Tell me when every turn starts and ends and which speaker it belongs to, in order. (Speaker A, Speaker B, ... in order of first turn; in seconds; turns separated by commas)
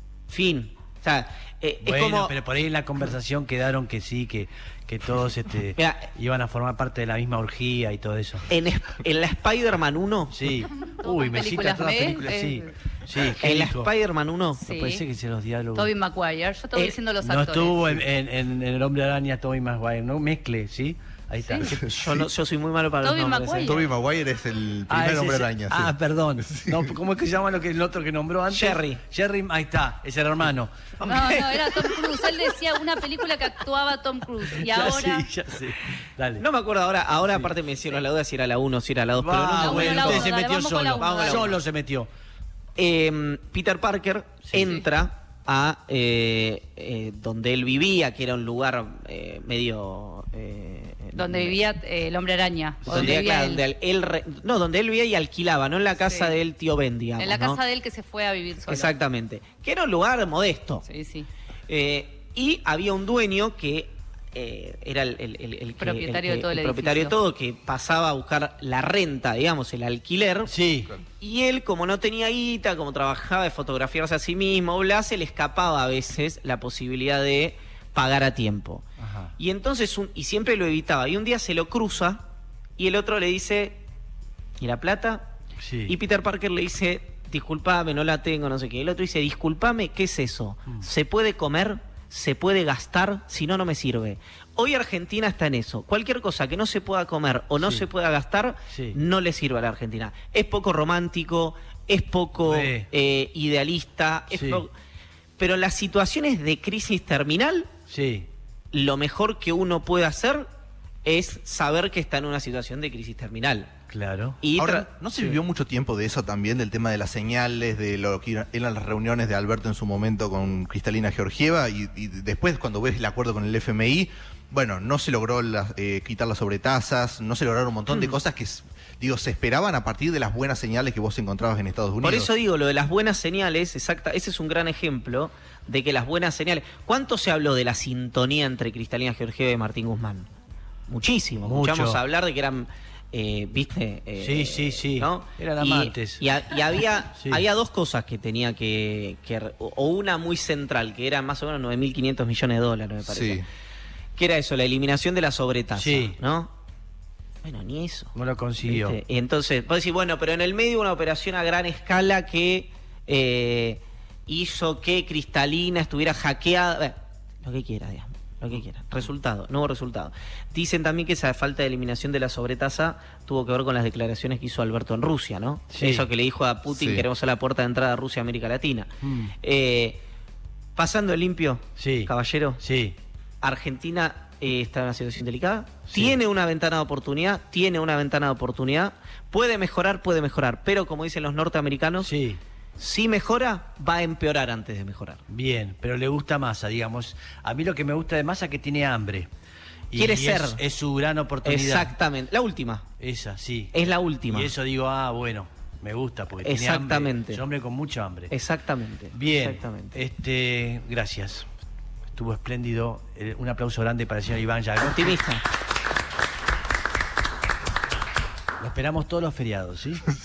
Speaker A: 0.3-2.3, Speaker B: 1.8-8.5, Speaker A: 5.8-6.1, Speaker A: 8.5-10.4, Speaker B: 10.3-13.9, Speaker C: 10.9-12.7, Speaker A: 13.4-14.6, Speaker C: 14.6-15.0, Speaker B: 14.7-15.9, Speaker C: 15.8-17.9, Speaker B: 17.2-22.0, Speaker A: 21.9-23.8, Speaker C: 23.0-23.8, Speaker D: 23.6-25.9, Speaker B: 24.9-30.7, Speaker D: 26.4-26.9, Speaker A: 28.5-29.0, Speaker A: 31.0-32.4, Speaker C: 31.0-35.3, Speaker B: 34.5-36.4, Speaker A: 36.4-40.3, Speaker B: 39.1-42.1, Speaker C: 39.6-41.4, Speaker A: 41.0-41.6, Speaker A: 42.8-51.6, Speaker C: 51.1-53.6, Speaker B: 52.8-53.2, Speaker A: 52.9-57.6, Speaker C: 56.0-56.3, Speaker C: 57.2-58.9, Speaker A: 58.7-60.8, Speaker C: 60.8-61.3, Speaker A: 61.7-70.5, Speaker C: 65.8-67.1, Speaker B: 70.5-70.9, Speaker A: 71.2-78.8, Speaker B: 79.0-79.3, Speaker A: 79.4-82.2, Speaker A: 82.8-83.8, Speaker A: 84.6-85.3, Speaker B: 85.6-86.0, Speaker A: 85.9-104.7, Speaker B: 98.7-99.0, Speaker B: 102.4-102.9, Speaker B: 104.3-104.6, Speaker A: 105.4-107.7, Speaker B: 107.9-108.3, Speaker A: 108.7-110.5, Speaker A: 111.0-113.7, Speaker B: 113.9-114.4, Speaker A: 114.4-114.8, Speaker D: 114.6-132.3, Speaker A: 132.0-140.3, Speaker A: 140.9-153.4, Speaker B: 141.4-142.0, Speaker B: 144.2-146.2, Speaker B: 147.2-147.4, Speaker D: 153.1-153.4, Speaker A: 154.2-156.5, Speaker B: 155.8-156.2, Speaker A: 157.4-158.1, Speaker B: 158.1-159.0, Speaker A: 158.6-180.0, Speaker B: 175.7-176.0, Speaker D: 176.7-177.0, Speaker B: 179.0-179.3, Speaker A: 180.8-182.6, Speaker B: 181.8-182.9, Speaker A: 183.4-192.1, Speaker B: 185.9-186.2, Speaker B: 192.0-192.4, Speaker A: 192.8-195.2, Speaker B: 195.3-199.3, Speaker B: 199.9-201.9, Speaker A: 199.9-200.6, Speaker A: 201.4-202.9, Speaker B: 203.0-203.7, Speaker A: 203.7-204.5, Speaker B: 204.3-208.3, Speaker A: 206.4-207.4, Speaker A: 208.3-210.0, Speaker B: 209.1-211.5, Speaker B: 212.2-215.2, Speaker A: 214.8-215.4, Speaker B: 218.6-220.1